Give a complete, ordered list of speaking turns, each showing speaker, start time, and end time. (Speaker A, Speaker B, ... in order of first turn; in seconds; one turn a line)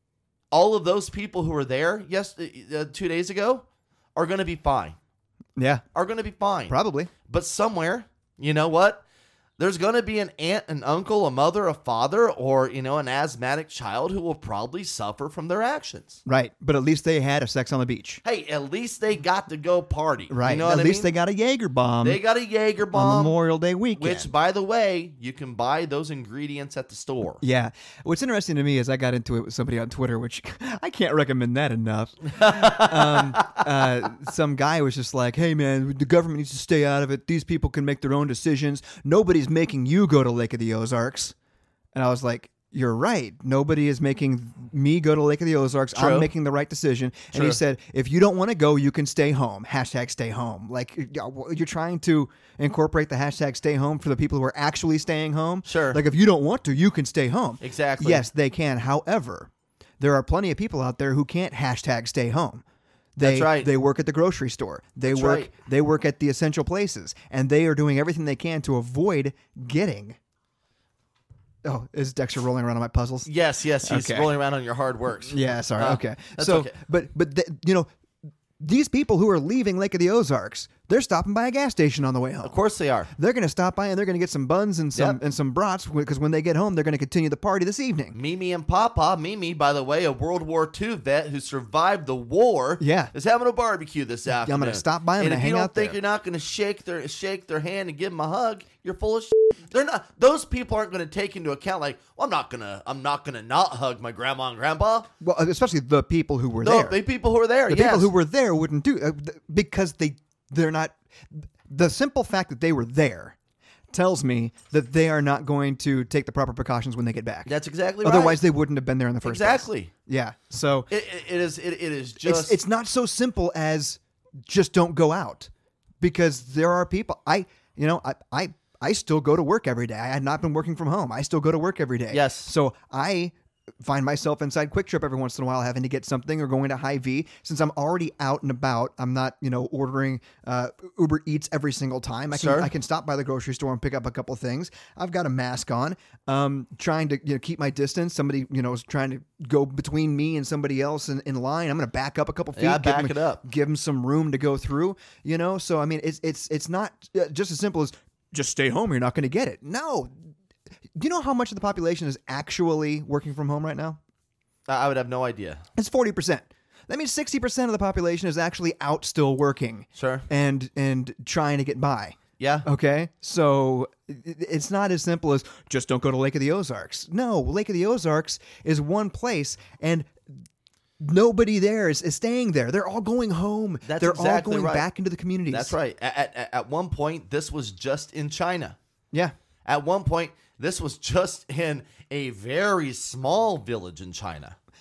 Speaker A: 0.5-5.0
Speaker B: 5.6-5.8
Speaker A: 5.9-9.0
Speaker B: 6.7-7.1
Speaker A: 9.6-16.2
Speaker B: 16.2-18.2
Speaker A: 18.2-21.1
Speaker B: 20.3-22.2
Speaker A: 22.0-23.4
Speaker B: 22.9-24.3
Speaker A: 23.9-27.4
Speaker B: 27.4-41.3
Speaker A: 32.3-33.5
Speaker B: 41.9-62.6
Speaker A: 45.9-46.3
Speaker A: 47.3-47.6
Speaker A: 55.6-56.0
Speaker A: 57.6-58.3
Speaker B: 63.1-70.2
Speaker A: 63.2-63.7
Speaker A: 65.0-65.5
Speaker B: 71.6-73.3
Speaker A: 73.2-76.7
Speaker B: 73.8-74.3
Speaker B: 75.3-77.9
Speaker B: 78.6-82.6
Speaker A: 82.4-83.1
Speaker B: 83.1-88.2
Speaker A: 88.1-105.1
Speaker B: 92.8-93.1
Speaker B: 94.3-96.0
Speaker B: 105.2-107.0
Speaker A: 106.6-108.1
Speaker B: 107.7-113.3
Speaker B: 113.9-117.5
Speaker A: 117.5-118.4
Speaker B: 118.0-120.9
Speaker A: 119.2-119.9
Speaker A: 120.9-122.6
Speaker B: 122.2-125.5
Speaker B: 126.0-160.1
Speaker A: 132.1-132.5
Speaker A: 142.3-142.7
Speaker A: 152.5-153.4
Speaker B: 160.9-164.0
Speaker A: 164.7-165.6
Speaker B: 165.8-180.2
Speaker A: 169.9-170.3
Speaker A: 172.4-172.7
Speaker B: 181.0-185.8
Speaker A: 183.8-184.8
Speaker A: 185.5-188.8
Speaker A: 189.6-194.6